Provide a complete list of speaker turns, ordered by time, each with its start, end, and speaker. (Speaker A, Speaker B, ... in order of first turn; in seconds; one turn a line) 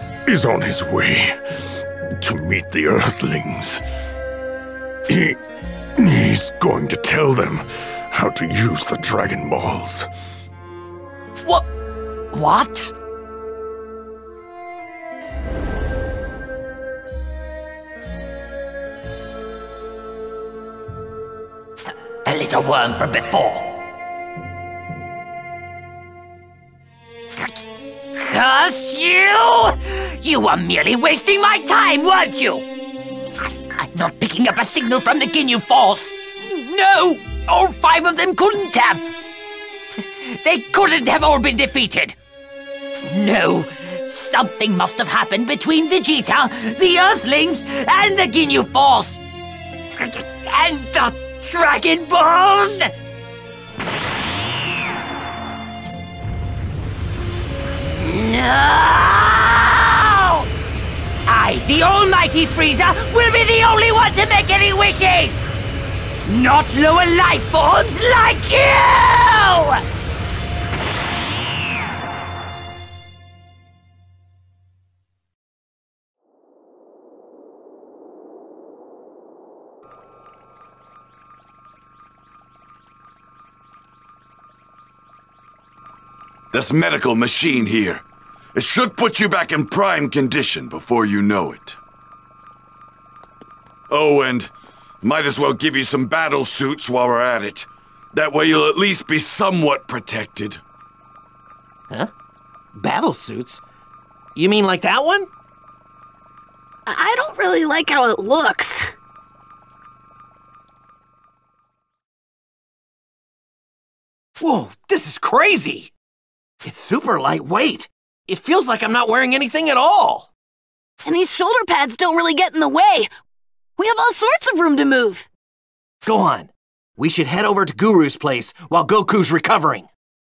Speaker A: 0.3-1.4
Speaker A: 2.2-3.8
Speaker A: 5.1-5.4
Speaker A: 6.0-10.1
Speaker B: 12.3-12.9
Speaker B: 22.2-23.8
Speaker B: 28.1-32.7
Speaker B: 33.4-39.1
Speaker B: 40.2-42.1
Speaker B: 43.0-49.2
Speaker B: 50.0-52.9
Speaker B: 58.0-60.5
Speaker B: 61.3-65.5
Speaker B: 66.2-69.8
Speaker C: 86.5-88.0
Speaker C: 88.5-91.8
Speaker C: 93.9-94.5
Speaker C: 95.0-100.6
Speaker D: 102.8-103.6
Speaker D: 104.3-105.3
Speaker E: 106.9-108.9
Speaker D: 114.4-115.9
Speaker D: 116.6-120.3
Speaker E: 121.0-123.1
Speaker E: 123.8-125.3
Speaker D: 126.0-129.9